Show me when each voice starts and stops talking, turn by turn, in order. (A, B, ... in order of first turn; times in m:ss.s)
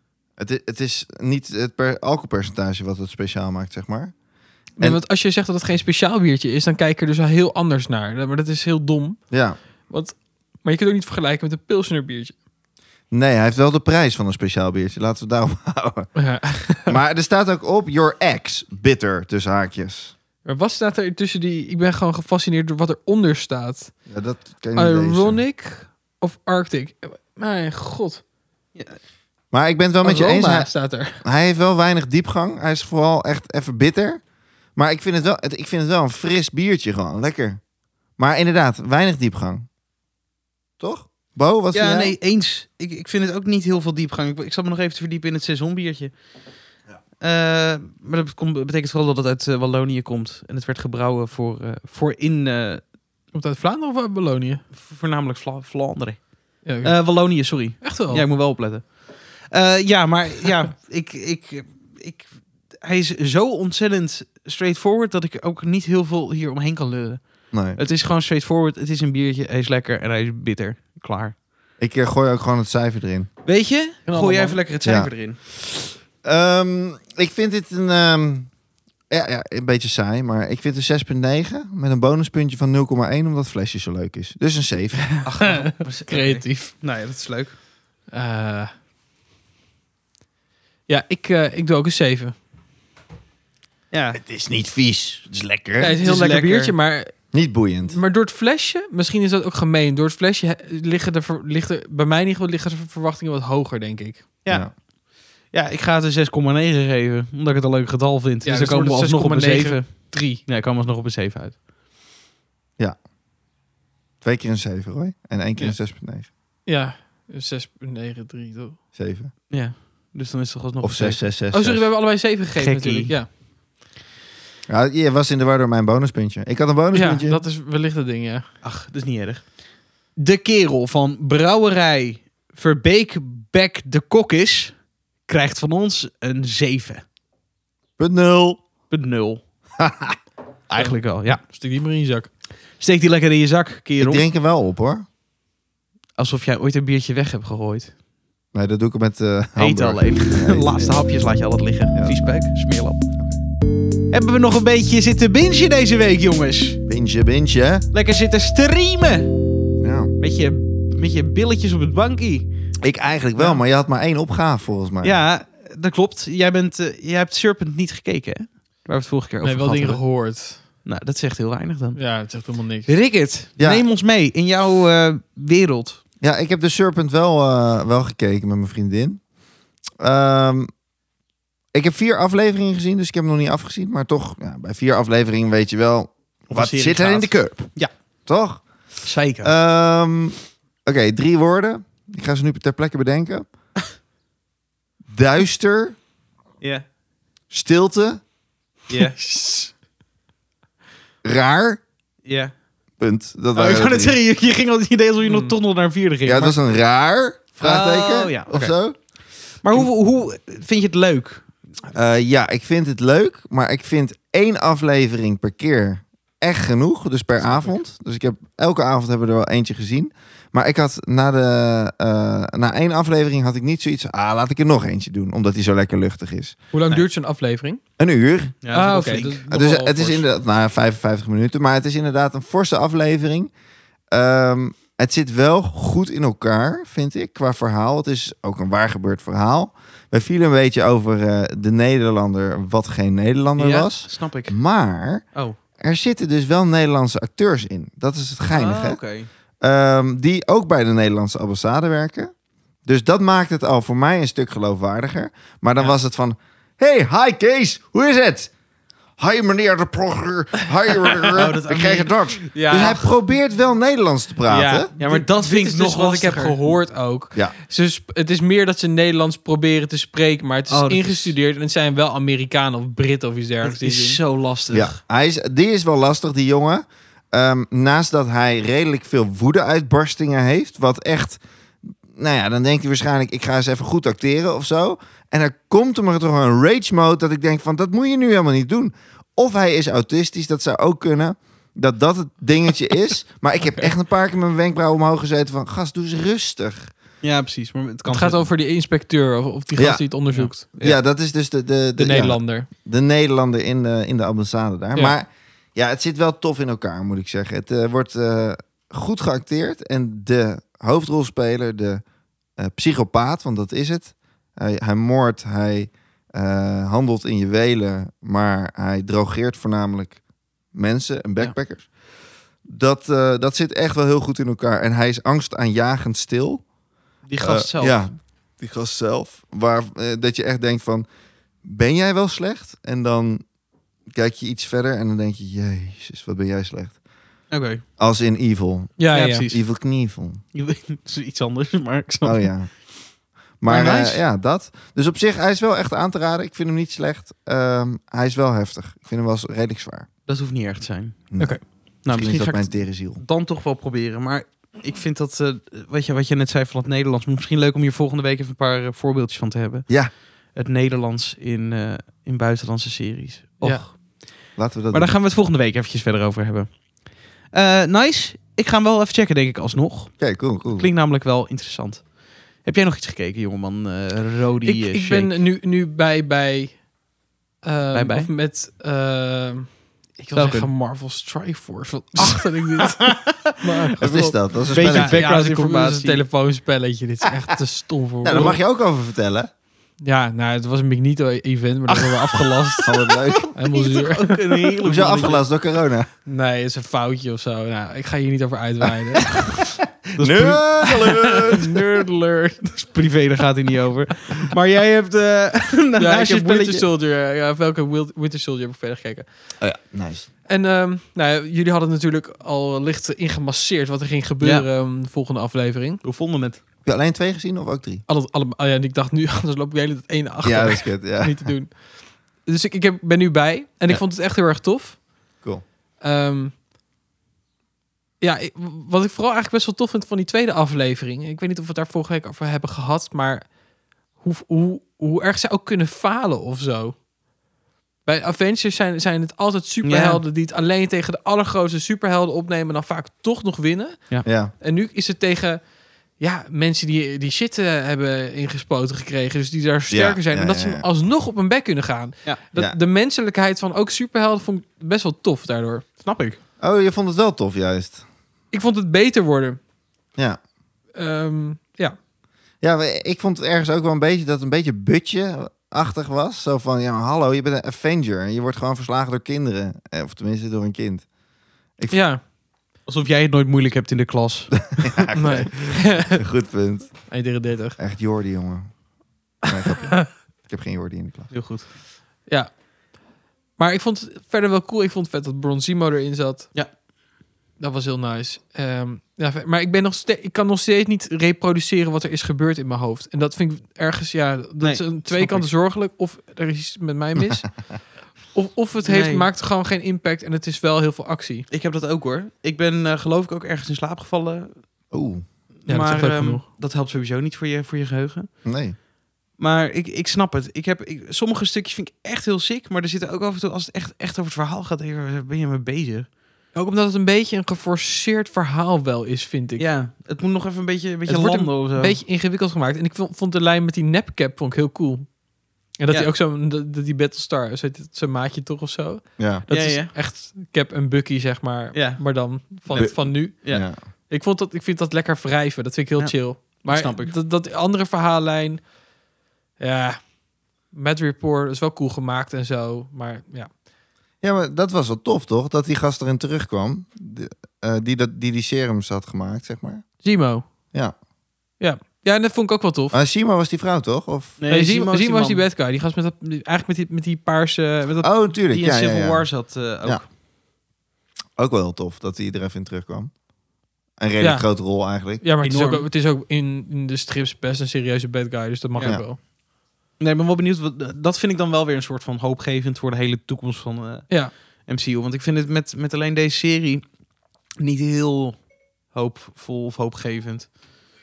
0:00.4-0:04.1 A
0:04.8-0:09.2 B
0:09.3-0:09.6 A
0:09.9-0:12.3 B
0:13.1-0:16.1 A
0:16.2-0:17.0 B
0:16.9-0:20.1 A
0:20.4-0:23.9 B
0:24.1-0:25.4 A
0:24.7-0:28.2 B
0:28.7-0:29.0 C
0:29.5-0:34.2 A
0:30.0-0:31.2 B
0:34.8-0:37.6 A
0:38.2-0:39.6 A
0:40.8-0:42.2 A
0:41.7-0:46.1 C
0:47.2-0:52.8 C
0:53.3-0:54.6 B
0:54.7-1:11.3 C
0:56.6-0:58.2 B
1:07.5-1:07.8 A
1:11.8-1:13.3 A
1:13.4-1:15.4 C
1:14.1-1:14.6 B
1:14.8-1:18.5 A
1:19.1-1:25.1 A
1:25.2-1:27.6 C
1:25.4-1:26.7 B
1:28.1-1:28.7 B
1:30.9-1:32.3 B
1:33.9-1:34.2 C
1:34.1-1:36.0 A
1:35.8-1:37.1 B
1:36.0-1:36.7 C
1:37.3-1:38.0 A
1:37.9-1:44.3 B
1:44.4-1:44.8 C
1:45.5-1:51.6 C
1:48.4-1:50.4 B
1:54.2-1:56.3 A
1:56.6-1:58.8 B
1:58.9-1:59.3 A
1:59.5-2:01.2 C
2:00.8-2:01.8 A
2:01.5-2:03.3 B
2:02.6-2:03.1 C
2:04.7-2:07.4 A
2:06.9-2:08.4 B
2:08.6-2:09.5 C
2:10.2-2:14.7 C
2:15.3-2:17.0 C
2:18.0-2:18.6 A
2:18.9-2:19.4 C
2:19.8-2:20.2 A
2:20.7-2:21.4 C
2:20.8-2:22.3 B
2:22.8-2:24.2 C
2:24.0-2:25.0 A
2:26.2-2:27.9 C
2:28.5-2:31.0 A
2:29.6-2:33.0 C
2:34.1-2:36.8 C
2:36.8-2:37.8 A
2:37.9-2:39.3 C
2:39.8-2:40.1 A
2:40.2-2:42.5 C
2:42.8-2:45.2 A
2:45.0-2:50.0 C
2:49.4-2:50.6 B
2:50.8-2:52.0 C
2:52.0-2:52.9 B
2:52.9-2:56.0 C
2:53.6-2:53.8 A
2:56.2-2:59.2 A
3:00.0-3:00.7 A
3:01.7-3:07.7 A
3:06.5-3:07.9 C
3:08.2-3:08.6 A
3:09.0-3:09.5 C
3:09.4-3:13.5 A
3:15.1-3:16.0 A
3:17.5-3:18.2 A
3:18.9-3:19.2 C
3:19.2-3:19.7 B
3:21.2-3:21.8 A
3:22.2-3:22.5 C
3:23.0-3:24.2 A
3:23.5-3:26.6 C
3:25.2-3:25.5 B
3:26.2-3:29.0 A
3:27.6-3:28.7 C
3:29.6-3:31.5 C
3:31.9-3:47.0 A
3:37.4-3:37.7 C
3:46.7-3:47.8 B
3:48.0-3:48.6 A
3:48.6-3:50.2 C
3:48.7-3:49.6 B
3:49.5-3:53.5 A
3:54.1-4:05.2 A
4:03.6-4:04.6 C
4:05.8-4:09.0 A
4:08.5-4:09.3 C
4:09.6-4:12.3 A
4:12.8-4:18.5 A
4:19.2-4:24.9 A
4:21.3-4:22.5 C
4:22.5-4:23.1 B
4:24.5-4:34.2 B
4:25.0-4:26.6 C
4:30.7-4:31.3 C
4:33.6-4:35.0 C
4:34.7-4:41.4 A
4:42.1-4:56.9 A
4:57.2-4:58.5 C
4:58.1-5:00.7 B
4:59.7-5:00.0 A
5:00.3-5:01.0 C
5:00.8-5:12.0 A
5:02.0-5:02.7 B
5:12.6-5:20.2 A
5:20.7-5:21.9 A
5:22.6-5:26.6 A
5:27.3-5:28.1 C
5:27.4-5:31.1 A
5:31.6-5:33.4 A
5:34.1-5:37.0 A
5:37.5-5:37.8 C
5:38.0-5:40.4 A
5:39.0-5:39.4 B
5:39.1-5:39.6 C
5:40.5-5:42.5 C
5:42.2-5:42.7 A
5:43.6-5:50.1 A
5:43.6-5:44.2 C
5:50.3-5:51.3 C
5:51.3-5:53.2 A
5:52.0-6:04.0 C
6:03.6-6:03.9 B
6:04.6-6:05.1 A
6:04.9-6:06.8 C
6:07.5-6:15.3 C
6:10.2-6:10.9 A
6:14.6-6:16.8 B
6:17.6-6:28.6 B
6:17.9-6:18.3 C
6:20.3-6:20.7 C
6:22.2-6:23.6 C
6:24.0-6:25.2 A
6:24.7-6:26.2 C
6:28.2-6:29.5 A
6:30.0-6:32.9 B
6:32.8-6:35.4 C
6:32.8-6:33.4 A
6:33.5-6:34.7 B
6:34.8-6:36.1 A
6:36.2-6:39.4 B
6:40.2-6:41.3 C
6:40.2-6:41.7 A
6:41.5-6:42.7 B
6:42.6-6:46.8 C
6:46.0-6:49.2 B
6:49.6-6:50.3 A
6:50.4-6:56.0 B
6:54.4-6:54.7 C
6:56.0-6:56.6 C
6:56.8-6:58.0 A
6:58.1-7:05.0 B
7:00.4-7:01.5 A
7:06.0-7:06.5 B
7:08.2-7:13.5 B
7:14.2-7:17.0 B
7:18.0-7:25.6 B
7:19.8-7:20.2 C
7:24.2-7:24.5 A
7:26.2-7:35.8 B
7:29.9-7:30.9 A
7:36.0-7:36.4 C
7:36.6-7:38.0 A
7:38.5-7:39.6 B
7:41.0-7:42.0 B
7:42.6-7:51.0 A
7:51.9-7:52.2 B
7:52.8-7:54.9 C
7:54.8-7:57.0 A
7:55.1-7:56.2 B
7:57.1-7:57.8 B
7:57.8-7:58.7 A
7:59.4-8:01.3 A
8:01.3-8:01.7 C
8:03.6-8:06.5 B
8:07.6-8:17.7 B
8:14.6-8:15.5 C
8:18.3-8:21.4 B
8:18.8-8:19.3 C
8:21.5-8:24.6 C
8:24.9-8:25.2 A
8:25.6-8:28.3 C
8:25.6-8:26.4 B
8:28.4-8:28.8 A
8:29.4-8:36.1 C
8:36.5-8:39.7 B
8:39.6-8:42.0 C
8:41.1-8:45.2 B
8:45.8-8:58.7 B
8:49.2-8:49.4 A
8:49.5-8:49.9 C
8:51.7-8:52.0 C
8:52.7-8:53.6 C
8:52.7-8:53.8 A
8:56.0-8:57.1 C
8:59.6-9:00.1 B
9:00.7-9:03.5 B
9:04.2-9:09.8 A
9:10.0-9:10.4 B
9:11.6-9:13.0 B
9:12.9-9:14.4 A
9:14.4-9:15.4 C
9:14.5-9:18.1 B
9:18.0-9:19.3 A
9:18.5-9:20.0 C
9:21.4-9:23.1 A
9:24.0-9:25.2 A
9:24.2-9:29.2 B
9:25.4-9:25.9 C
9:28.8-9:29.0 C
9:30.0-9:36.9 C
9:37.6-9:40.5 C